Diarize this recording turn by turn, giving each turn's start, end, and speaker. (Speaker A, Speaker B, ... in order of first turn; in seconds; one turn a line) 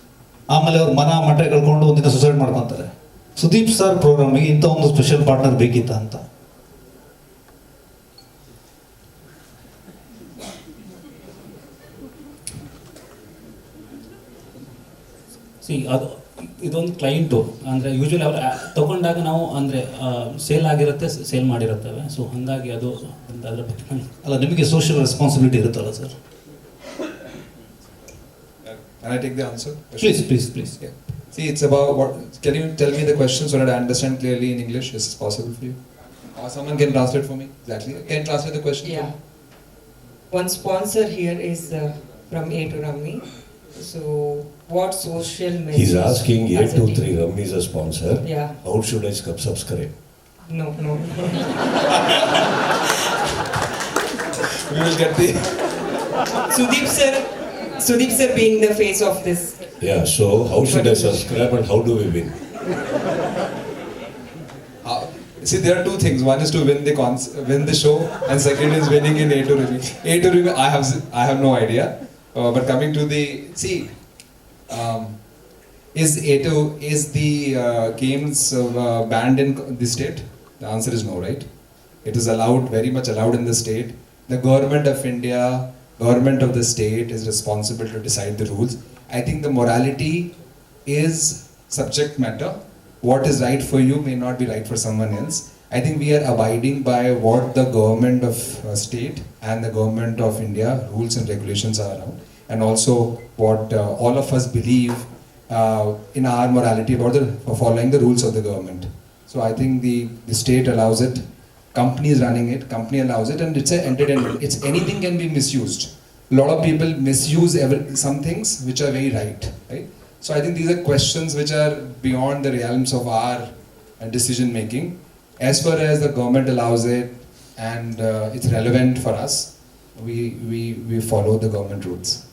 Speaker A: 0.5-6.2
Speaker B: 15.6-24.1
Speaker A: 24.2-26.1
Speaker C: 28.6-35.8
Speaker A: 30.0-30.8
Speaker C: 36.4-39.1
Speaker D: 38.8-39.1
Speaker D: 40.3-47.1
Speaker E: 45.7-49.9
Speaker D: 48.2-48.5
Speaker D: 50.5-52.1
Speaker C: 54.5-55.6
Speaker D: 56.5-59.6
Speaker E: 59.8-62.4
Speaker D: 60.6-61.5
Speaker C: 64.8-73.9
Speaker C: 74.7-75.2
Speaker C: 75.9-81.5
Speaker C: 82.0-90.3
Speaker C: 90.9-111.2
Speaker C: 111.7-123.5
Speaker C: 124.0-132.2